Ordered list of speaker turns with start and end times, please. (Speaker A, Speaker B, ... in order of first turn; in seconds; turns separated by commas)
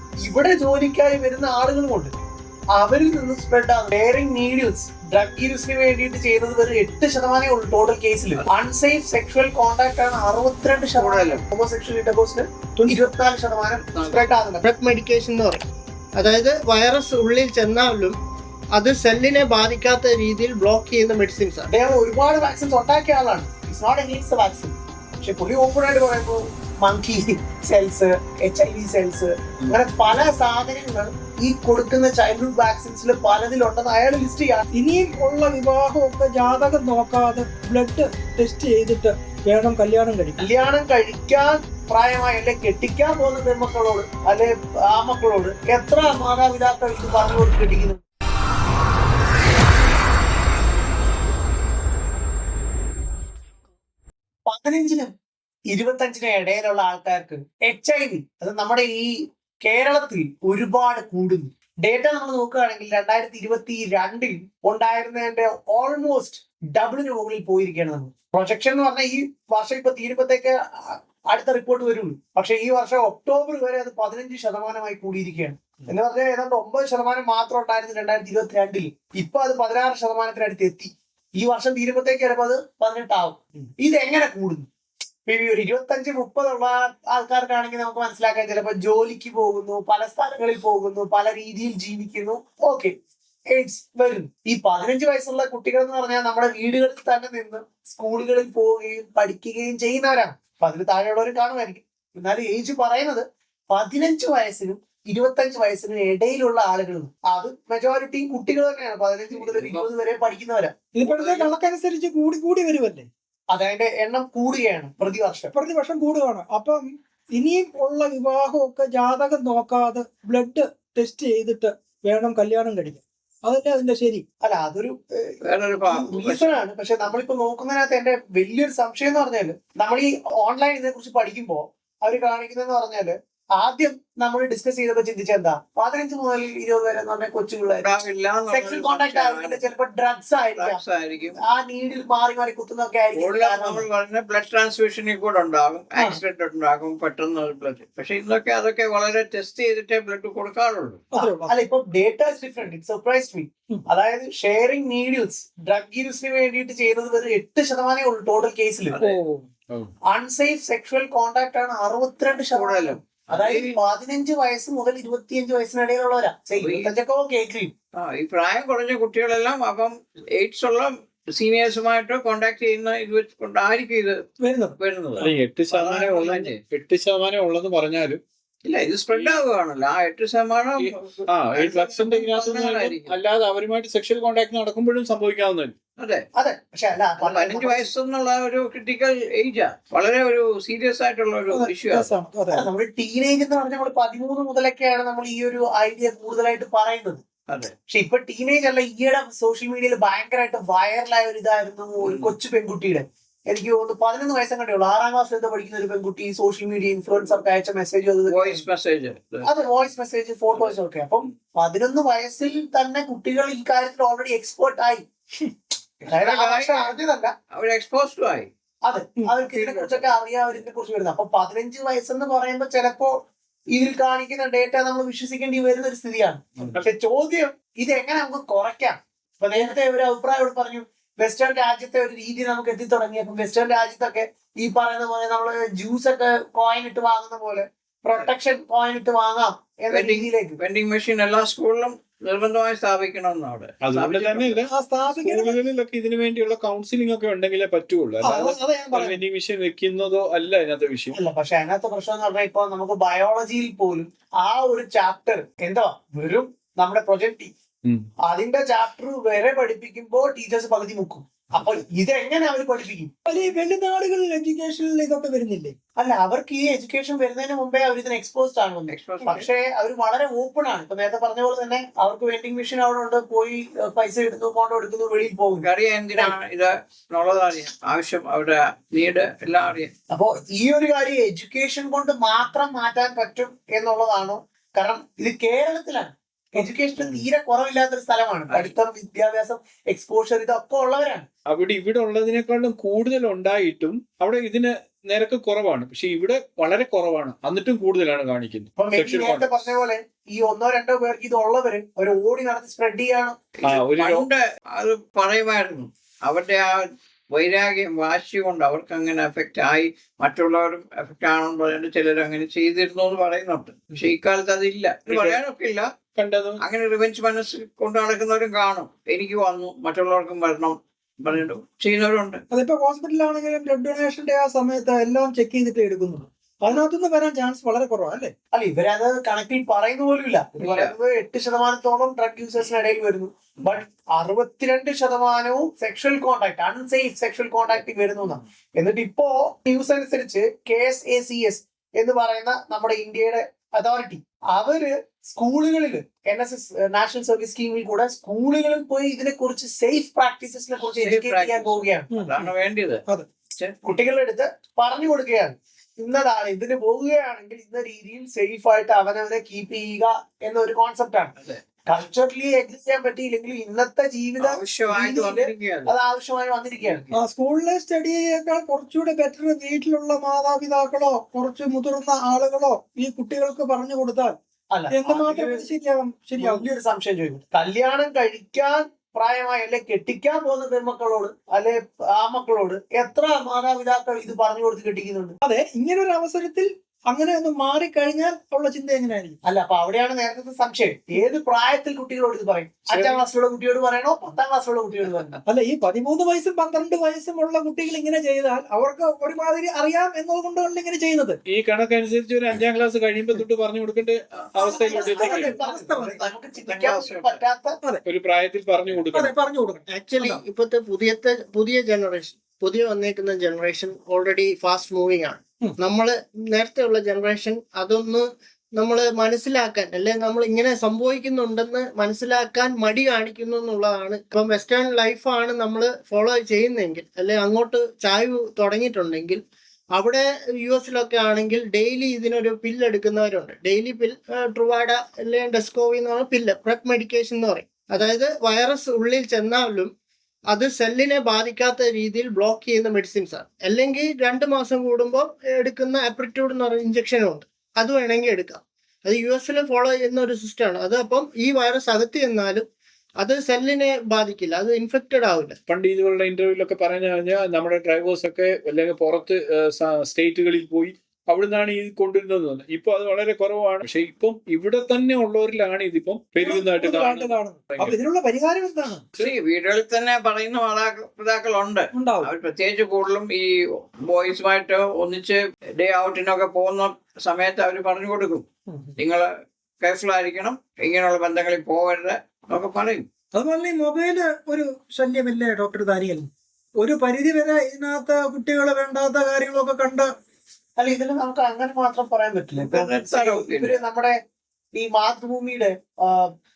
Speaker A: 0.2-2.1, Speaker A: 2.8-14.7, Speaker B: 11.0-11.4, Speaker C: 12.8-13.0, Speaker B: 13.9-14.2, Speaker D: 14.6-15.6, Speaker D: 16.2-18.1, Speaker D: 18.7-21.7, Speaker A: 21.7-34.6, Speaker C: 34.7-40.4, Speaker A: 40.4-48.0, Speaker A: 54.5-55.1, Speaker A: 55.7-84.7, Speaker A: 85.3-93.0, Speaker A: 93.5-111.5, Speaker B: 109.3-109.8, Speaker C: 110.9-113.1, Speaker A: 113.5-115.5, Speaker C: 115.5-124.2, Speaker A: 124.4-137.9, Speaker B: 125.4-126.6, Speaker B: 137.8-139.6, Speaker A: 138.5-140.8, Speaker B: 140.6-141.4, Speaker A: 141.4-143.8, Speaker B: 143.2-151.0, Speaker C: 151.1-151.6, Speaker A: 151.2-158.9, Speaker B: 158.9-159.2, Speaker C: 159.0-159.5, Speaker A: 160.1-167.7, Speaker B: 162.5-163.8, Speaker B: 166.6-166.9, Speaker B: 167.9-174.2, Speaker C: 174.4-174.8, Speaker B: 174.8-176.6, Speaker E: 175.2-178.2, Speaker B: 178.7-183.2, Speaker E: 179.1-179.4, Speaker E: 180.8-185.8, Speaker B: 186.0-186.2, Speaker A: 186.4-187.9, Speaker B: 187.2-192.1, Speaker C: 191.5-192.7, Speaker A: 192.5-197.2, Speaker A: 197.9-208.6, Speaker B: 202.0-202.3, Speaker B: 208.3-209.5, Speaker A: 209.4-215.1, Speaker B: 216.0-217.0, Speaker A: 216.1-217.3, Speaker B: 217.5-218.5, Speaker A: 218.8-223.1, Speaker C: 219.2-219.8, Speaker A: 223.7-240.6, Speaker B: 239.9-244.6, Speaker E: 243.8-251.2, Speaker C: 244.7-245.6, Speaker C: 248.2-249.2, Speaker A: 251.1-257.5, Speaker A: 258.3-263.1, Speaker C: 263.3-265.8, Speaker A: 266.0-276.4, Speaker B: 268.9-269.5, Speaker B: 275.6-279.9, Speaker A: 280.1-291.3, Speaker E: 291.5-299.6, Speaker A: 298.8-303.4, Speaker B: 303.6-315.9, Speaker E: 303.6-304.3, Speaker E: 315.1-315.4, Speaker E: 316.2-316.6, Speaker B: 316.6-322.4, Speaker C: 322.5-328.3, Speaker A: 328.5-352.1, Speaker B: 330.6-330.9, Speaker B: 350.9-353.0, Speaker C: 352.1-352.5, Speaker A: 353.8-361.3, Speaker A: 361.9-367.0, Speaker B: 364.4-365.9, Speaker B: 366.8-367.2, Speaker C: 367.1-374.4, Speaker A: 374.7-375.7, Speaker C: 374.9-376.7, Speaker A: 376.4-385.4, Speaker C: 385.4-389.4, Speaker A: 389.4-395.4, Speaker E: 392.9-393.2, Speaker C: 395.5-401.4, Speaker E: 401.5-405.6, Speaker C: 404.6-406.2, Speaker A: 404.7-407.8, Speaker B: 406.2-407.4, Speaker E: 408.1-409.4, Speaker C: 409.1-410.4, Speaker D: 409.9-429.4, Speaker D: 429.9-439.9, Speaker D: 440.5-452.7, Speaker D: 453.2-455.6, Speaker E: 455.7-468.0, Speaker C: 466.4-469.0, Speaker B: 469.2-478.4, Speaker C: 471.9-472.3, Speaker B: 479.0-479.3, Speaker B: 479.8-483.1, Speaker C: 483.3-490.1, Speaker A: 490.8-494.2, Speaker B: 492.6-493.8, Speaker A: 494.7-496.3